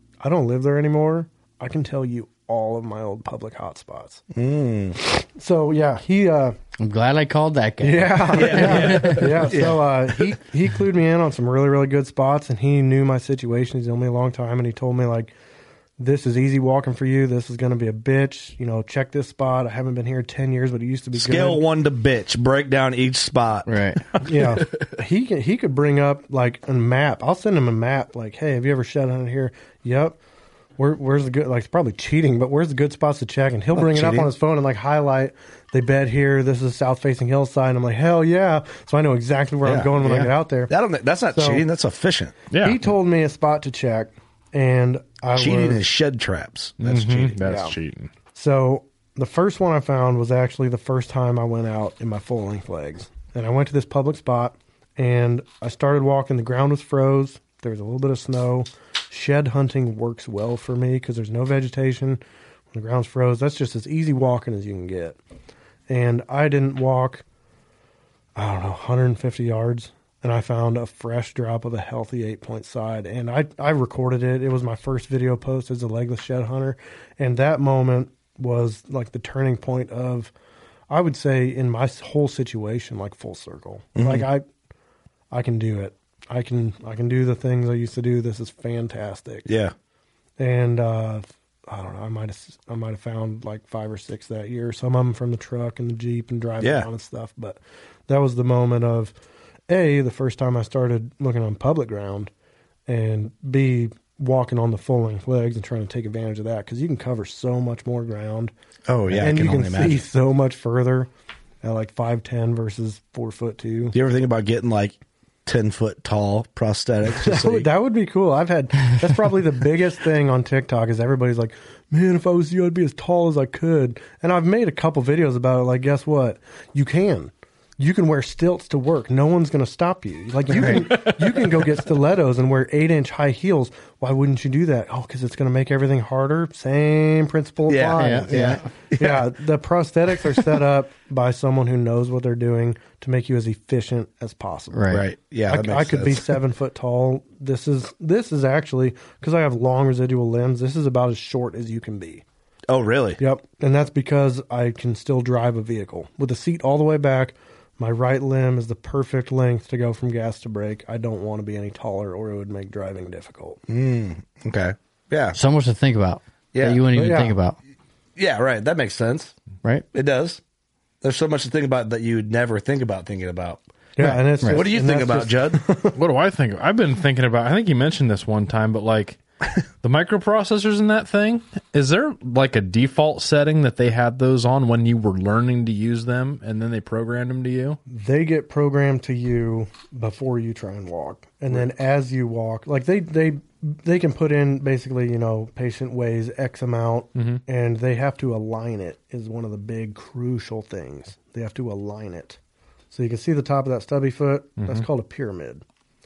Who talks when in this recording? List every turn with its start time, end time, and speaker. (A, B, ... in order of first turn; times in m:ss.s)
0:00.2-0:04.2 A
0:04.3-0:05.0 B
0:05.0-0:06.6 A
0:06.8-0:09.7 C
0:07.8-0:15.3 A
0:08.3-0:10.3 B
0:16.0-0:21.6 A
0:21.1-0:24.2 B
0:23.6-0:24.0 C
0:24.2-0:30.2 A
0:30.8-0:40.7 A
0:33.8-0:34.3 B
0:39.6-0:42.4 B
0:41.3-0:41.6 A
0:42.5-0:42.8 D
0:42.6-0:45.8 A
0:45.3-0:47.4 B
0:46.8-0:48.1 D
0:47.4-0:47.7 A
0:48.3-1:02.2 A
1:02.7-1:05.2 A
1:05.9-1:07.2 A
1:08.4-1:20.3 A
1:20.9-1:24.4 A
1:24.0-1:24.3 B
1:25.3-1:29.4 A
1:29.4-1:29.7 B
1:30.4-1:39.1 A
1:36.6-1:36.9 B
1:39.7-1:42.3 A
1:42.9-1:48.5 A
1:48.9-1:50.0 B
1:49.1-1:51.1 A
1:51.6-1:53.9 A
1:53.9-1:57.7 B
1:57.1-2:24.9 A
2:10.6-2:10.9 C
2:10.7-2:11.6 D
2:17.7-2:19.2 B
2:18.0-2:18.6 C
2:24.7-2:25.0 C
2:24.9-2:26.4 B
2:25.5-2:32.2 A
2:32.7-2:33.2 B
2:33.2-2:43.6 A
2:43.7-2:45.4 B
2:45.3-2:47.6 C
2:46.5-2:46.8 B
2:46.9-2:47.3 A
2:48.2-2:49.3 B
2:49.9-2:50.4 B
2:51.0-2:53.6 B
2:54.0-2:55.9 A
2:54.0-2:54.6 C
2:54.4-2:55.6 B
2:55.9-2:59.2 D
2:59.8-3:07.8 D
3:07.9-3:22.4 A
3:17.2-3:17.4 D
3:22.9-3:25.6 A
3:24.6-3:24.9 D